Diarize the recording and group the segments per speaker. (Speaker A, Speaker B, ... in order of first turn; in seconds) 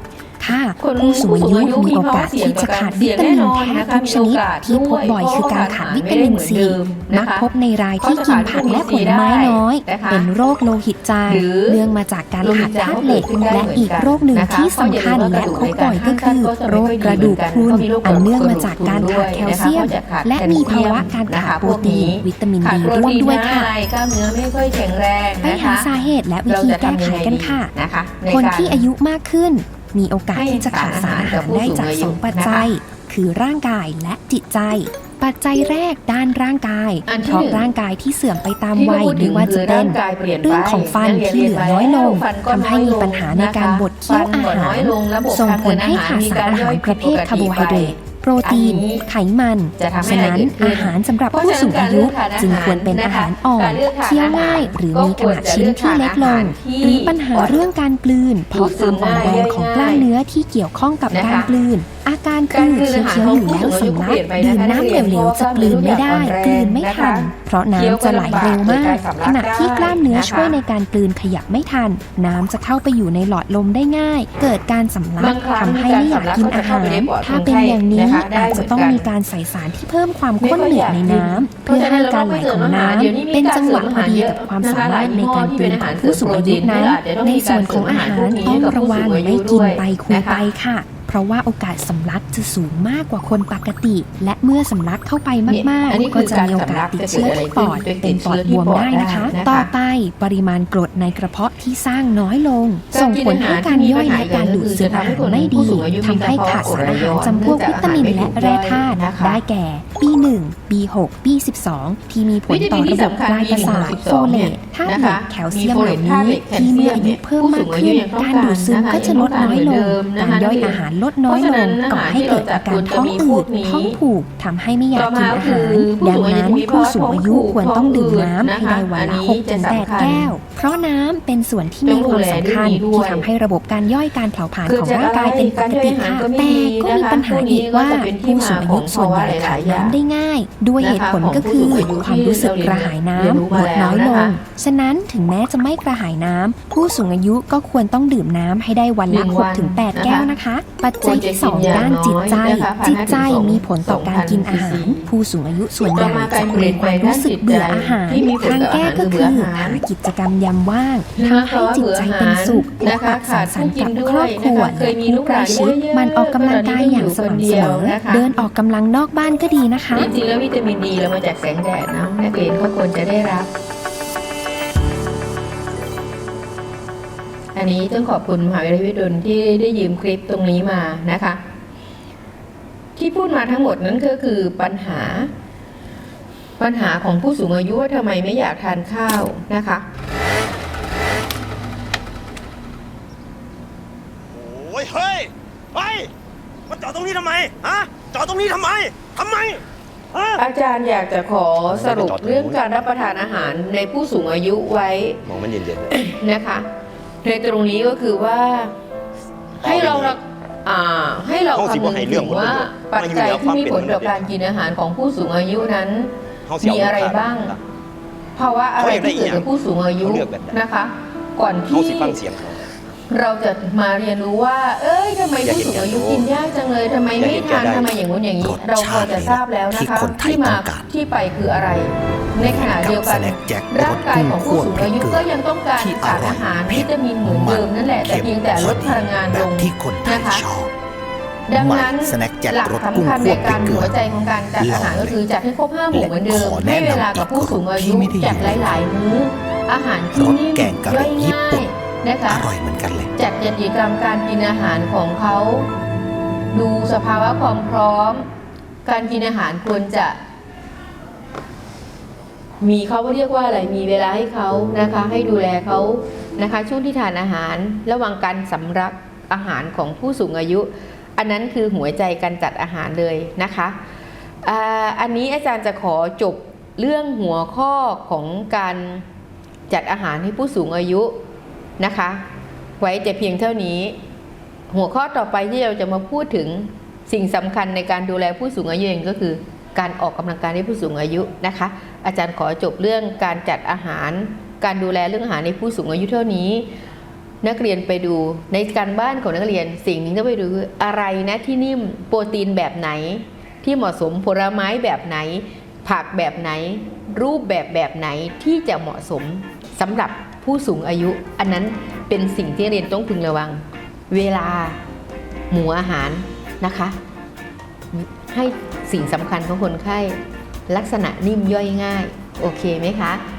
Speaker A: 0.4-23.7, 25.4-27.7, 28.3-170.1
Speaker B: 0.8-7.5, 8.0-10.3, 11.3-11.8, 12.4-25.9, 26.5-28.8, 30.3-32.7, 37.1-37.7, 38.7-49.0, 49.8-57.6, 58.5-60.0, 61.1-61.5, 62.5-70.6, 75.2-79.1, 80.4-90.4, 95.5-99.7, 102.9-109.4, 112.5-124.0, 125.0-130.3, 131.9-133.2, 134.7-139.9, 140.8-144.4, 149.1-150.3, 151.0-155.1, 155.9-159.8, 161.2-168.4, 169.9-173.5, 177.6-181.4, 183.0-185.3, 186.6-189.8, 200.4-205.2, 205.9-206.7, 207.2-208.8, 209.6-217.6, 218.4-222.2, 223.1-240.4, 241.5-252.5, 253.2-255.7, 256.5-258.3, 258.9-260.2, 262.6-273.8, 274.4-279.1, 279.7-281.1, 281.8-282.2, 282.8-284.0, 284.7-296.7, 297.4-314.8, 315.5-317.0, 317.9-323.2
Speaker C: 194.3-196.1, 196.7-200.4, 201.7-202.6, 205.3-205.9, 209.6-210.2, 211.5-214.3, 216.5-217.6, 218.8-219.5, 220.0-220.6, 221.7-222.6, 225.4-226.3, 227.1-228.0
Speaker D: 228.4-230.9, 232.4-240.7, 241.6-244.0, 244.6-245.2, 245.9-248.9, 250.1-251.7, 252.3-253.1